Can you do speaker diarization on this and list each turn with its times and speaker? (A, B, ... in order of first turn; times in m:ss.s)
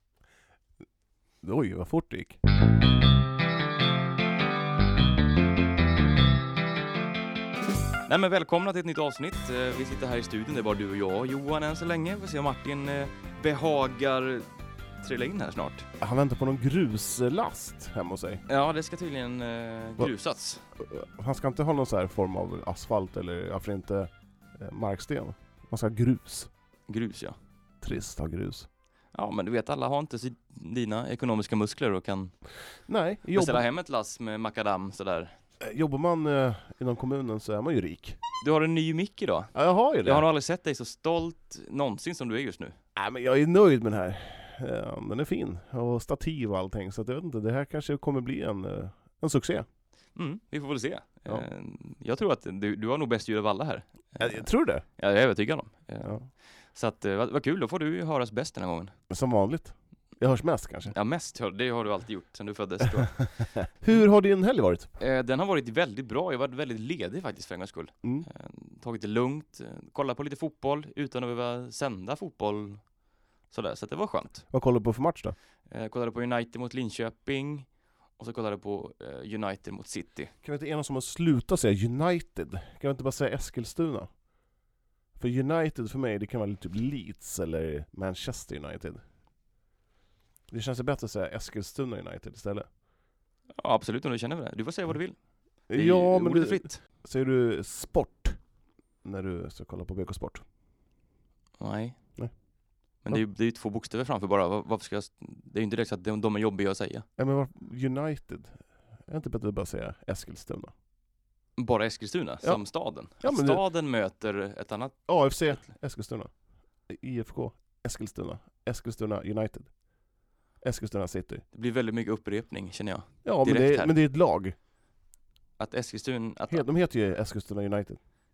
0:01.4-0:02.4 A
0:08.1-0:14.4 B
0:15.0-0:15.8 B
0:16.0-0:18.4 A
0:18.5-0:20.6 B
0:20.8-0:26.5 A
0:26.9-0:27.4 B
0:27.8-0:28.7 A
0:29.1-0:32.3 B
0:32.9-0:33.6 A
0:33.3-0:35.3 B
0:35.6-0:38.2 A
0:38.4-0:42.8 B
0:39.5-0:40.2 A
0:43.0-0:49.6 A
0:50.1-0:59.0 B
0:54.2-0:54.8 A
0:59.1-1:00.9 A
1:00.9-1:03.2 B
1:03.0-1:04.9 A
1:05.0-1:12.9 B
1:13.5-1:14.4 B
1:14.5-1:15.3 A
1:15.7-1:20.3 B
1:20.4-1:24.1 A
1:25.2-1:29.0 A
1:30.5-1:32.7 A
1:33.6-1:36.8 B
1:35.7-1:38.4 A
1:39.0-1:40.4 A
1:41.6-1:42.2 B
1:43.0-1:47.1 B
1:47.2-1:50.7 A
1:51.6-1:55.0 B
1:52.4-1:53.6 A
1:55.1-1:56.3 A
1:56.9-1:59.7 A
2:00.6-2:01.4 A
2:01.5-2:03.9 B
2:03.2-2:04.5 A
2:05.6-2:06.6 B
2:06.5-2:08.0 A